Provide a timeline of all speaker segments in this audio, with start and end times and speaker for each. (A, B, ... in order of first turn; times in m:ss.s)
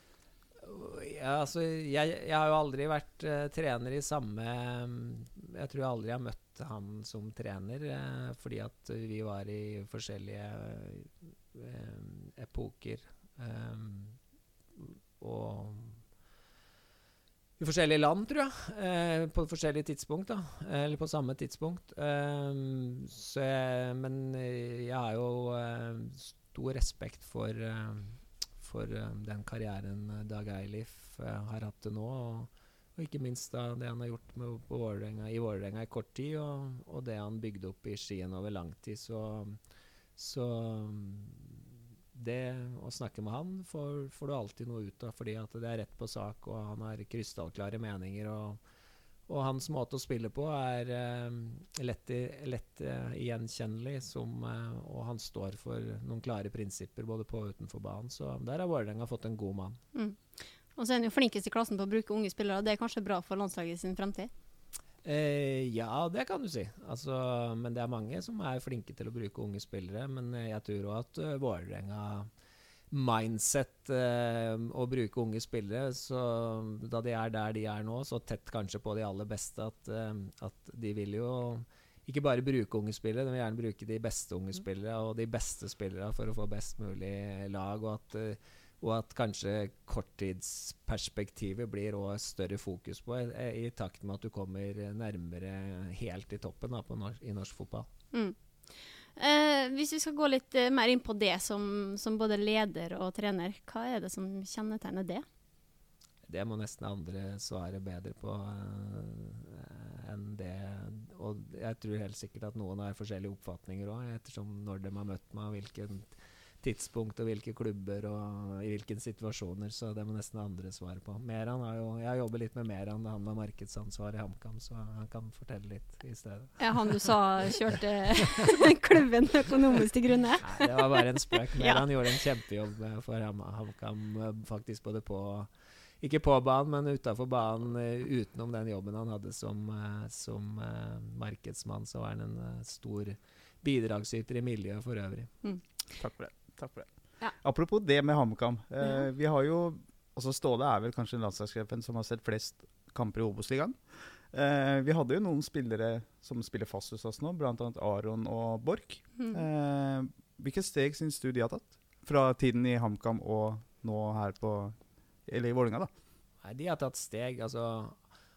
0:00.6-0:14.2 A
0:14.8-0:16.0 A
0:17.6-0:39.6 A
0:40.2-0:48.6 A
0:49.3-0:59.8 A
1:00.0-1:00.2 B
1:00.8-1:04.3 B
1:05.0-1:12.3 A
1:12.9-1:37.9 A
1:39.2-1:45.2 B
1:46.3-1:56.1 A
1:56.6-2:07.1 A
2:06.6-2:11.0 B
2:10.4-2:25.3 A
2:11.6-2:11.8 B
2:26.0-2:45.9 C
2:46.4-2:48.0 A